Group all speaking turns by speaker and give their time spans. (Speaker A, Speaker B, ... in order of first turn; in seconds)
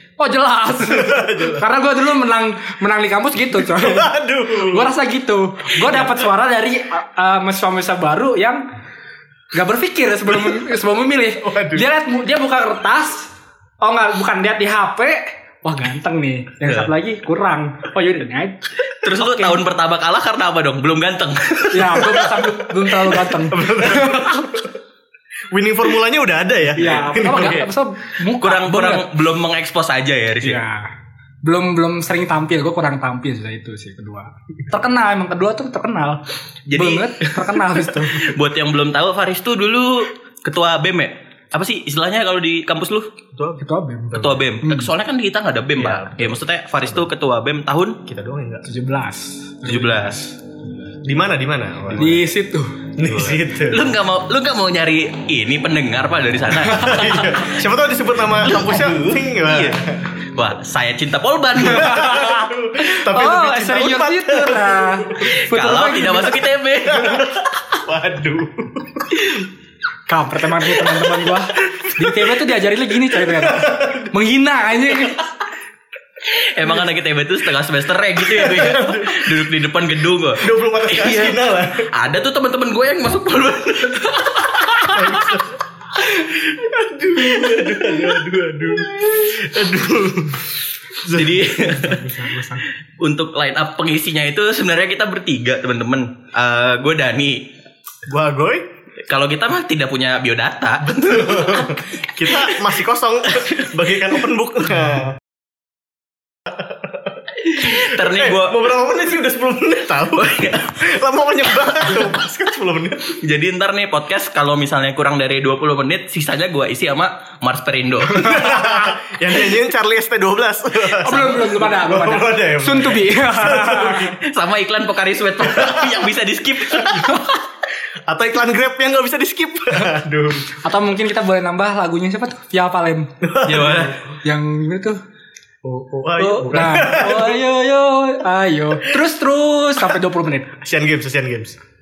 Speaker A: 0.2-8.7, 9.5-19.6, 21.7-24.7, 26.8-29.1, 30.4-30.9, 31.4-38.2, 43.6-44.9, 48.6-50.3, 52.0-52.8, 61.7-66.4, 70.1-75.3, 91.7-92.6, 118.3-118.9, 121.0-124.1, 127.1-127.3, 130.6-133.1, 134.2-135.0, 136.2-140.5
Speaker B: 0.8-1.7, 3.6-4.9, 11.4-11.8, 22.0-22.4, 23.4-24.7, 25.5-27.7, 43.4-44.5, 45.8-47.1, 48.1-48.7, 51.0-52.3, 53.0-53.9, 56.6-60.2, 61.6-65.4, 66.9-69.3, 70.7-71.4, 72.0-72.3, 73.1-74.1, 78.3-79.5, 80.4-81.9, 84.9-85.6, 86.1-91.5, 98.1-98.7, 101.1-105.2, 108.0-113.1, 118.2-124.2, 125.4-126.0, 128.1-130.6, 133.2-134.0, 135.6-137.5, 140.6-141.6
Speaker C: 16.6-16.9, 18.9-22.3, 28.4-30.6, 36.7-43.1, 44.1-48.0, 49.6-50.3, 53.0-57.4, 58.3-59.8, 60.3-62.3, 65.3-67.2, 76.3-85.4, 87.2-88.2, 91.1-97.5, 99.1-102.7, 107.5-108.7, 110.2-110.9, 111.8-112.1, 113.1-118.5, 124.2-127.3, 133.4-134.0